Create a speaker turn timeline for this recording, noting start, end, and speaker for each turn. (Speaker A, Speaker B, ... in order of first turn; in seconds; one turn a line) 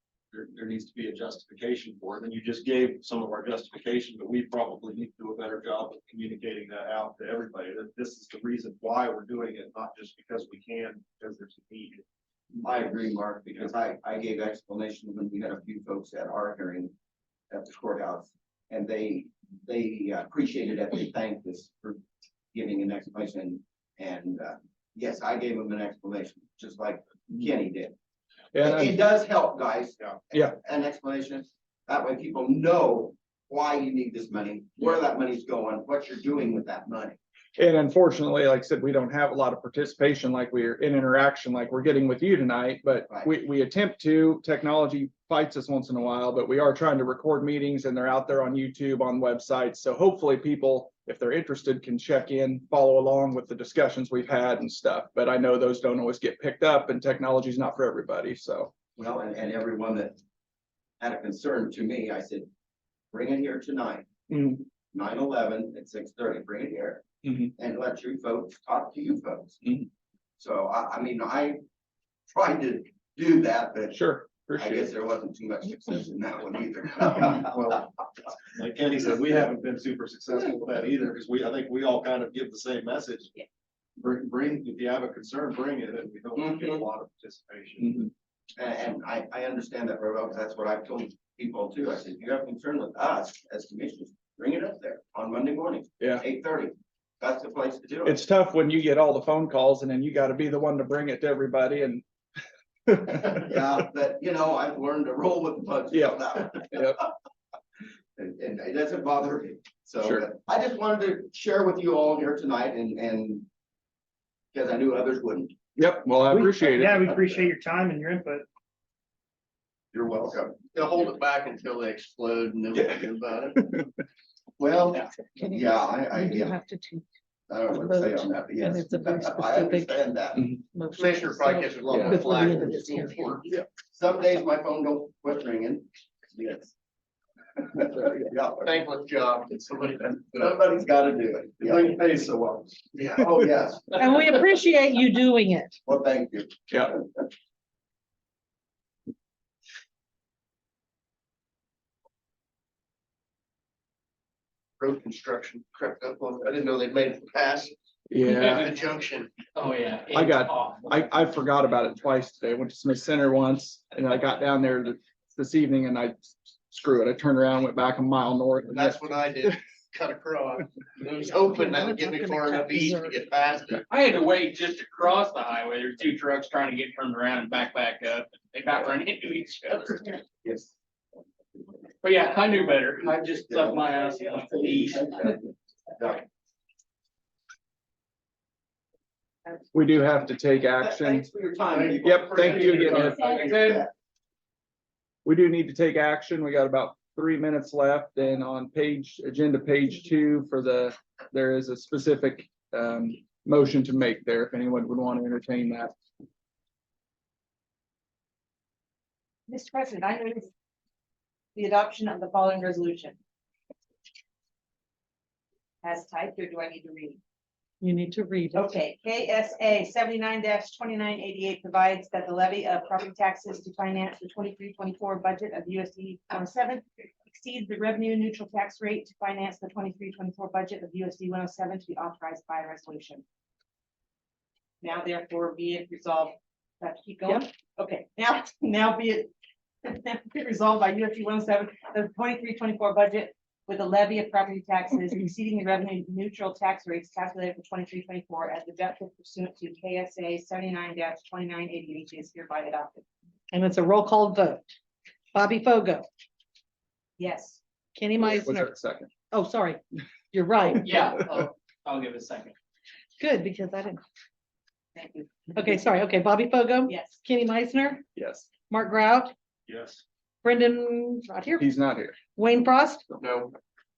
Speaker A: 0.3-12.0
Speaker B: 12.6-16.9
Speaker B: 17.5-22.0
Speaker B: 22.5-27.9
Speaker C: 28.5-29.0
Speaker B: 28.6-37.2
Speaker C: 37.6-58.7
Speaker B: 59.0-60.2
Speaker B: 61.0-62.5
Speaker B: 63.1-64.0
Speaker C: 64.3-64.6
Speaker B: 64.9-69.6
Speaker C: 67.2-67.5
Speaker B: 70.4-71.6
Speaker B: 72.3-74.0
Speaker C: 73.9-74.9
Speaker B: 74.6-77.5
Speaker A: 77.4-77.8
Speaker A: 78.6-83.3
Speaker A: 84.0-88.0
Speaker B: 88.6-98.2
Speaker C: 98.0-102.0
Speaker C: 102.9-103.2
Speaker B: 103.1-107.1
Speaker C: 105.9-107.0
Speaker B: 108.2-113.5
Speaker B: 114.5-115.6
Speaker C: 115.8-117.0
Speaker D: 116.3-118.4
Speaker B: 120.0-120.2
Speaker A: 120.3-120.7
Speaker E: 120.7-123.6
Speaker B: 124.6-126.6
Speaker F: 125.4-125.6
Speaker F: 126.2-127.0
Speaker B: 127.5-130.5
Speaker F: 127.8-130.0
Speaker F: 130.7-133.2
Speaker A: 130.9-133.4
Speaker E: 131.0-133.4
Speaker B: 133.8-136.7
Speaker B: 137.6-138.7
Speaker E: 138.7-140.1
Speaker B: 140.2-141.9
Speaker A: 141.7-142.7
Speaker B: 142.9-144.1
Speaker F: 143.9-145.8
Speaker B: 145.8-147.0
Speaker E: 154.8-157.7
Speaker C: 158.1-158.7
Speaker G: 158.2-158.9
Speaker E: 158.7-159.3
Speaker G: 159.5-161.1
Speaker C: 160.1-169.0
Speaker E: 168.7-173.8
Speaker F: 171.7-173.1
Speaker A: 172.6-173.0
Speaker G: 173.8-180.2
Speaker G: 182.0-185.3
Speaker C: 189.7-191.3
Speaker B: 190.8-193.9
Speaker C: 192.0-193.4
Speaker A: 192.4-193.4
Speaker G: 193.4-193.8
Speaker C: 195.2-205.9
Speaker H: 209.5-210.5
Speaker H: 211.5-213.2
Speaker H: 215.8-217.2
Speaker F: 217.8-218.7
Speaker H: 218.5-233.2
Speaker H: 234.8-239.3
Speaker H: 239.8-253.0
Speaker F: 253.5-254.7
Speaker F: 255.3-256.1
Speaker H: 257.2-257.6
Speaker F: 257.9-258.8
Speaker C: 258.2-259.1
Speaker F: 259.3-259.8
Speaker F: 260.3-260.9
Speaker G: 260.8-262.6
Speaker F: 263.2-264.0
Speaker H: 264.9-265.5
Speaker F: 265.5-268.1
Speaker H: 266.9-267.2
Speaker C: 268.1-268.5
Speaker F: 268.7-269.3
Speaker A: 269.7-270.0
Speaker F: 270.4-271.7
Speaker C: 271.6-272.2
Speaker F: 272.4-273.1